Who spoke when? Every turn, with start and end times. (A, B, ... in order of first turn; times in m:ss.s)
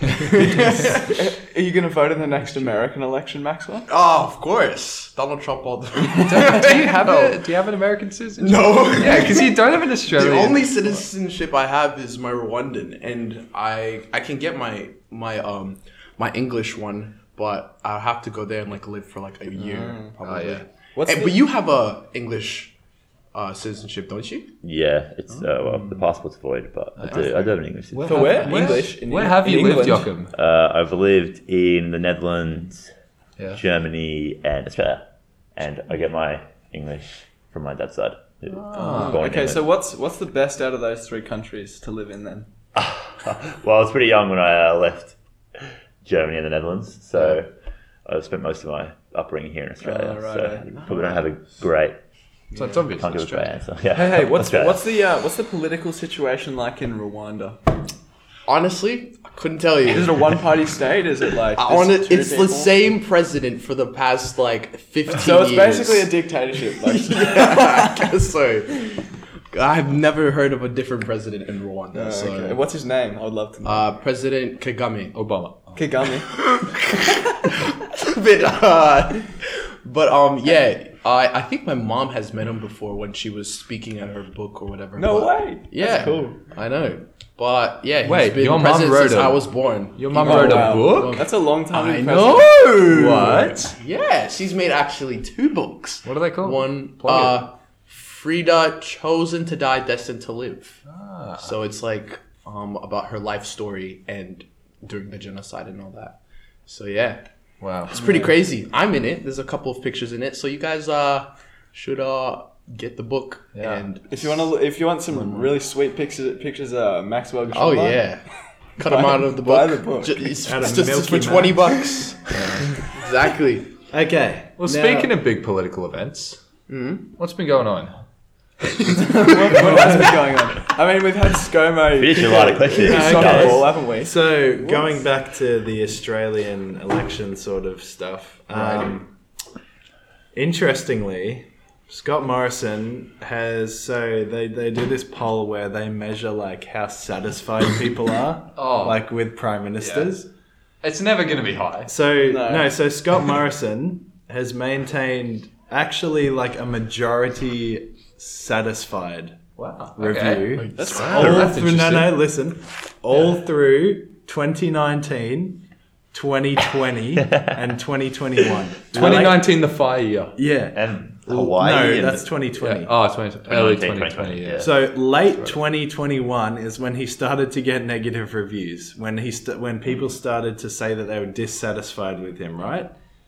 0:00.3-0:03.9 A
0:00.4-0:01.0 B
0:03.9-0:07.5 B
0:06.2-0:11.0 C
0:08.4-0:22.8 B
0:19.6-0:20.1 A
0:20.2-0:20.7 C
0:21.0-0:21.4 A
0:23.3-0:24.6 B
0:24.6-0:28.6 D
0:27.0-0:30.3 C
0:28.0-0:30.1 A
0:28.1-0:28.8 B
0:30.3-0:32.9 D
0:33.5-0:39.7 D
0:38.5-0:39.2 C
0:38.8-0:42.5 A
0:42.8-0:47.5 D
0:48.0-0:52.0 D
0:49.8-0:50.9 A
0:50.8-0:51.0 B
0:52.5-0:53.6 C
0:52.8-0:54.9 D
0:53.9-0:57.6 A
0:58.5-1:00.5 B
0:59.8-1:02.7 A
1:01.6-1:06.1 B
1:05.2-1:08.1 A
1:06.8-1:12.6 B
1:11.9-1:14.0 A
1:13.6-1:15.2 B
1:15.1-1:15.8 C
1:15.8-1:16.4 A
1:16.3-1:40.8 B
1:25.0-1:26.4 A
1:28.0-1:31.3 C
1:30.2-1:32.7 A
1:32.1-1:33.8 C
1:36.0-1:37.5 C
1:40.9-1:41.6 C
1:41.4-1:47.2 B
1:47.6-1:48.3 C
1:47.9-1:54.5 B
1:53.6-1:53.8 C
1:54.1-1:58.1 A
1:55.1-1:55.4 C
1:57.5-1:58.2 B
1:58.8-2:03.7 B
1:58.8-2:00.3 A
2:00.4-2:01.8 E
2:02.3-2:02.7 C
2:03.9-2:05.2 E
2:04.6-2:06.4 C
2:06.7-2:07.1 B
2:07.1-2:08.0 C
2:09.0-2:14.4 A
2:09.6-2:10.1 C
2:12.0-2:13.7 D
2:12.8-2:19.1 E
2:20.4-2:30.3 E
2:28.6-2:29.1 C
2:29.8-2:30.2 C
2:30.8-2:31.9 C
2:31.9-2:39.4 E
2:32.2-2:32.7 A
2:39.6-2:42.2 C
2:40.0-2:49.5 E
2:40.6-2:41.4 B
2:40.8-2:41.5 A
2:47.2-2:47.6 D
2:48.9-2:49.4 D
2:48.9-2:50.4 C
2:50.4-2:52.9 E
2:50.7-2:52.3 D
2:52.6-2:54.7 C
2:53.5-2:54.7 D
2:54.6-3:02.9 E